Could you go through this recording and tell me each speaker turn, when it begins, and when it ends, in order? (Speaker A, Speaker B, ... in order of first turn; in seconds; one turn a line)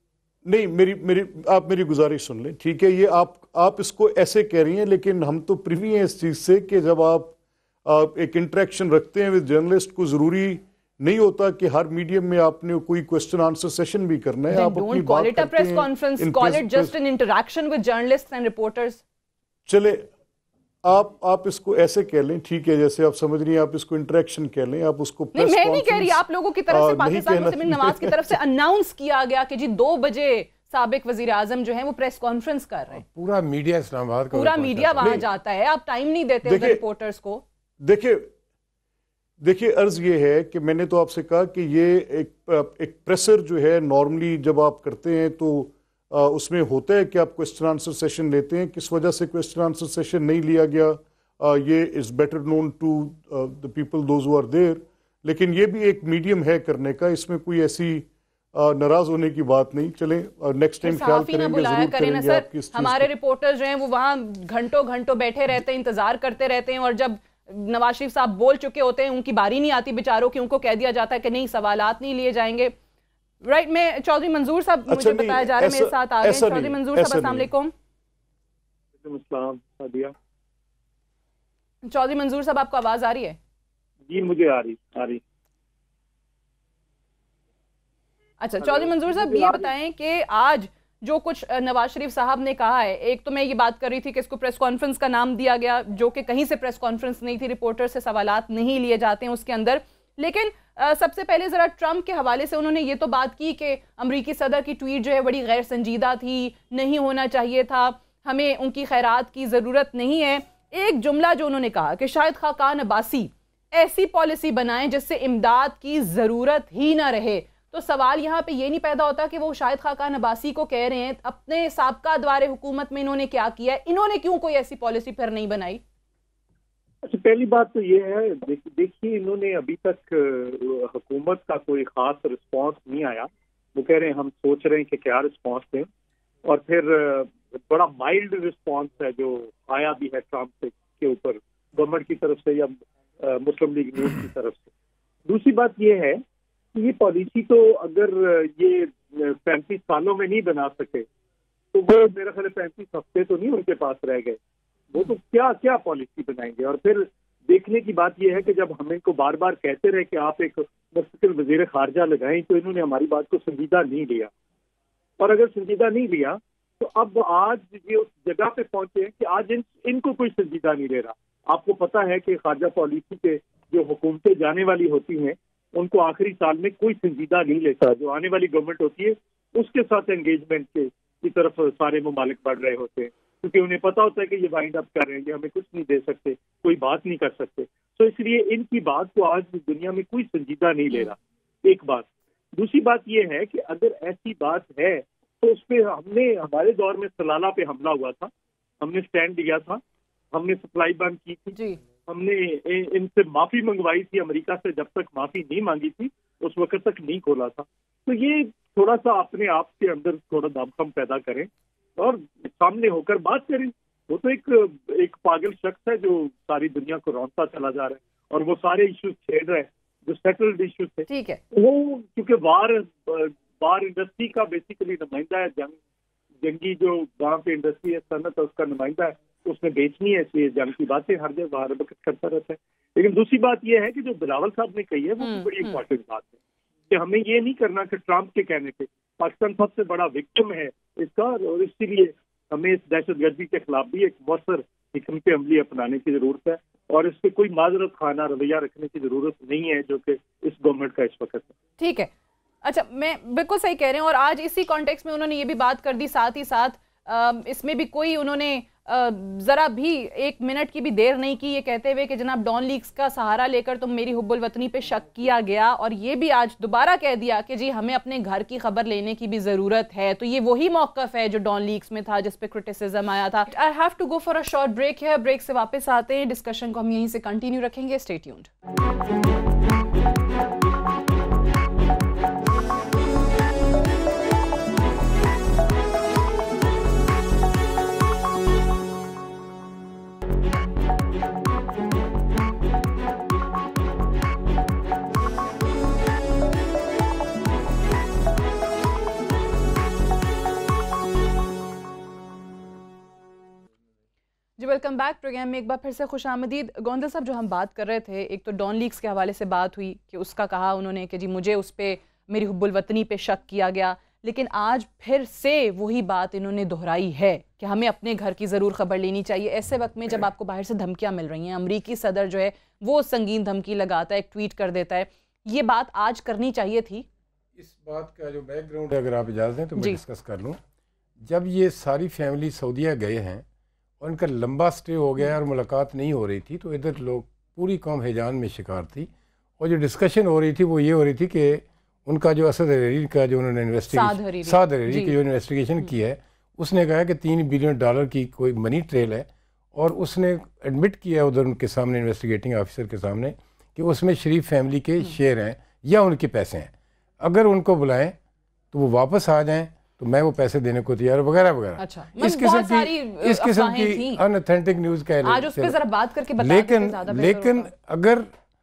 Speaker A: 0.4-16.9
Speaker B: 14.5-19.0
Speaker A: 19.6-20.1
Speaker A: 20.8-28.2
Speaker B: 25.3-33.0
Speaker C: 32.9-35.2
Speaker B: 34.3-37.4
Speaker A: 36.4-36.8
Speaker A: 37.8-38.3
Speaker A: 39.4-63.1
Speaker B: 60.8-72.7
Speaker B: 73.4-77.7
Speaker A: 74.9-77.5
Speaker D: 79.0-80.1
Speaker B: 81.8-83.4
Speaker D: 84.1-85.2
Speaker B: 88.4-125.8
Speaker D: 88.6-89.7
Speaker D: 127.0-135.9
Speaker D: 136.4-144.7
Speaker D: 145.2-146.2
Speaker D: 146.7-151.0
Speaker D: 151.7-154.4
Speaker D: 154.9-164.3
Speaker D: 165.2-198.3
Speaker D: 198.8-199.8
Speaker D: 200.3-225.7
Speaker B: 221.1-221.4
Speaker D: 226.4-236.3
Speaker B: 235.2-235.8
Speaker D: 236.9-251.5
Speaker B: 251.8-252.1
Speaker B: 252.6-278.5
Speaker B: 304.6-327.1
Speaker C: 327.6-330.6
Speaker C: 331.2-333.4
Speaker C: 334.0-358.1
Speaker B: 343.9-345.1
Speaker C: 358.7-365.8
Speaker B: 361.8-364.2
Speaker B: 365.2-367.7
Speaker C: 366.4-368.3